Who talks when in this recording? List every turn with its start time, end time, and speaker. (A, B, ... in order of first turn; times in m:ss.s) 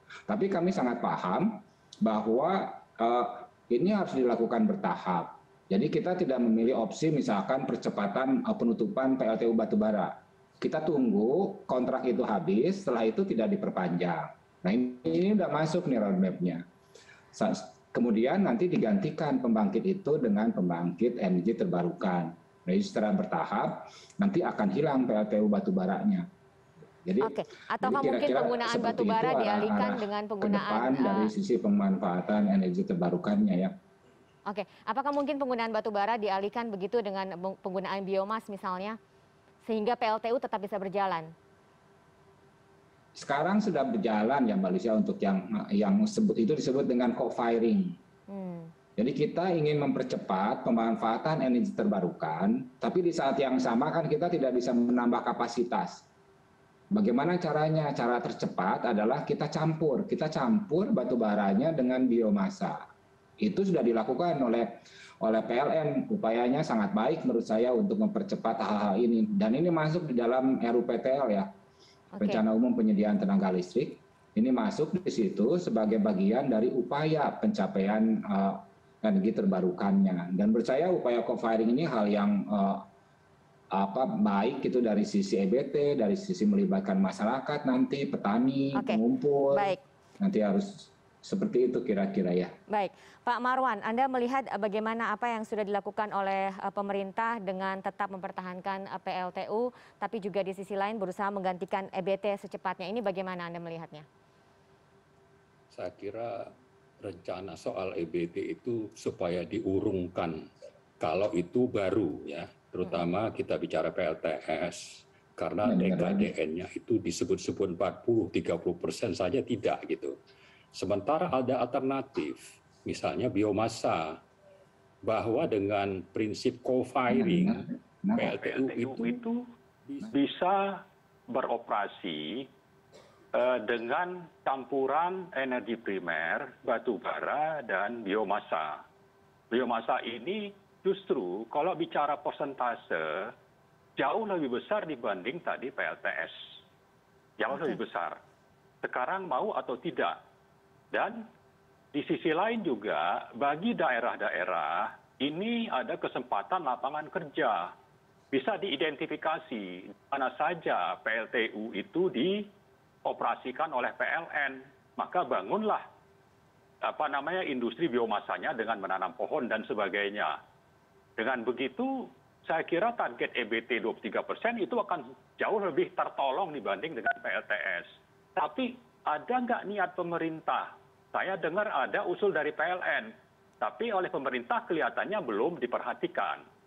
0:00.3-0:16.6 A
0:17.3-0:26.3 A
0:27.0-0:33.8 A
0:27.2-0:31.3 B
0:34.5-0:39.0 B
0:39.6-0:41.3 B
0:43.2-0:48.0 A
0:48.3-0:48.7 B
0:49.0-0:56.0 A
0:56.9-1:02.8 A
1:03.4-1:11.5 A
1:12.2-1:12.4 B
1:12.2-1:22.9 A
1:23.7-1:32.5 A
1:28.8-1:29.8 B
1:32.7-1:44.1 B
1:45.7-1:50.5 C
1:51.0-2:00.2 C
1:55.6-1:56.3 A
2:00.7-2:04.2 C
2:05.0-2:09.1 C
2:07.1-2:09.1 A
2:08.7-2:09.4 D
2:10.1-2:12.5 D
2:13.3-2:18.8 D
2:19.5-2:23.3 D
2:24.0-2:26.6 D
2:27.4-2:28.2 D
2:28.8-2:30.2 D
2:30.9-2:31.2 D
2:31.9-2:37.7 D
2:38.3-2:42.5 D
2:43.0-2:45.8 D
2:46.8-2:50.4 D
2:51.2-3:06.4 D